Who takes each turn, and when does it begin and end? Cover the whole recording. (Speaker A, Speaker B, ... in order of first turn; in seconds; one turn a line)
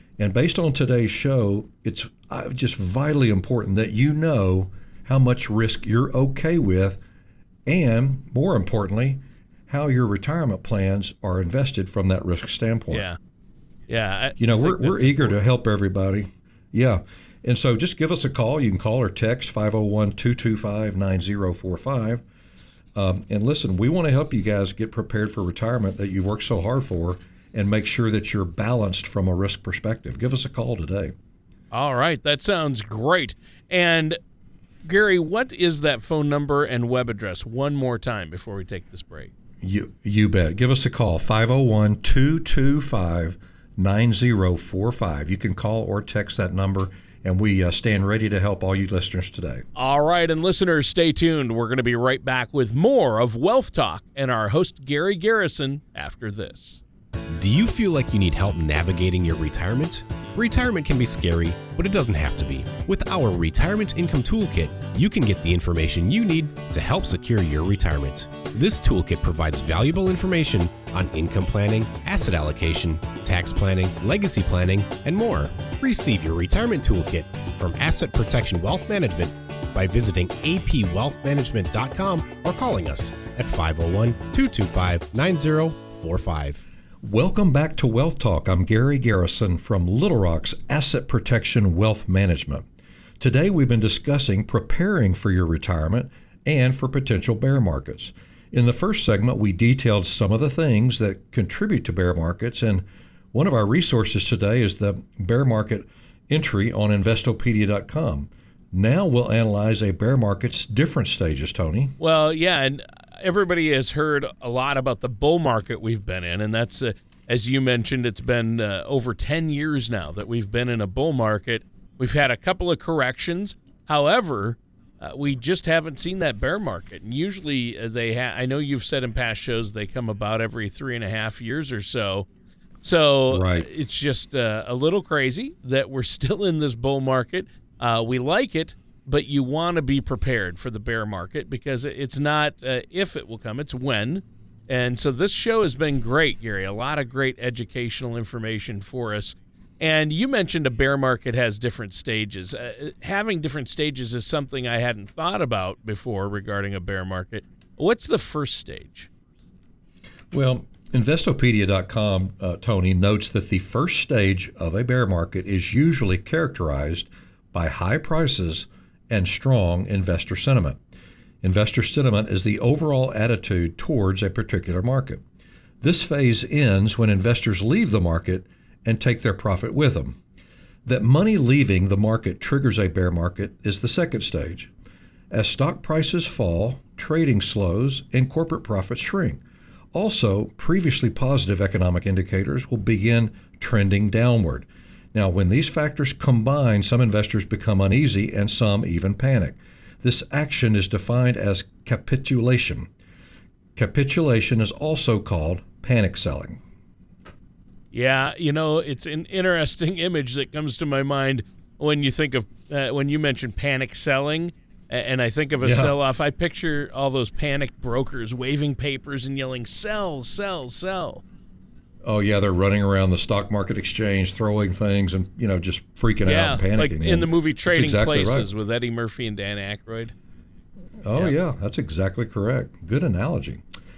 Speaker A: 0.2-7.0
Speaker A: 7.7-13.1
Speaker B: 12.9-13.2
Speaker B: 13.9-15.3
Speaker A: 14.4-22.2
Speaker A: 22.9-31.1
Speaker B: 31.7-34.2
Speaker B: 34.8-39.3
Speaker A: 39.6-49.6
Speaker B: 49.7-56.8
Speaker C: 57.3-86.6
Speaker A: 87.0-92.7
Speaker A: 93.2-112.0
Speaker B: 112.0-132.3
Speaker B: 132.8-159.1
Speaker A: 133.3-133.7
Speaker A: 160.3-170.8
Speaker A: 171.4-175.2
Speaker A: 175.8-180.2
Speaker A: 180.8-184.7
Speaker A: 185.3-189.4
Speaker A: 189.9-202.9
Speaker A: 203.8-206.6
Speaker B: 207.9-221.2
Speaker A: 215.6-215.9
Speaker A: 222.1-228.5
Speaker B: 226.2-230.1
Speaker A: 231.0-233.6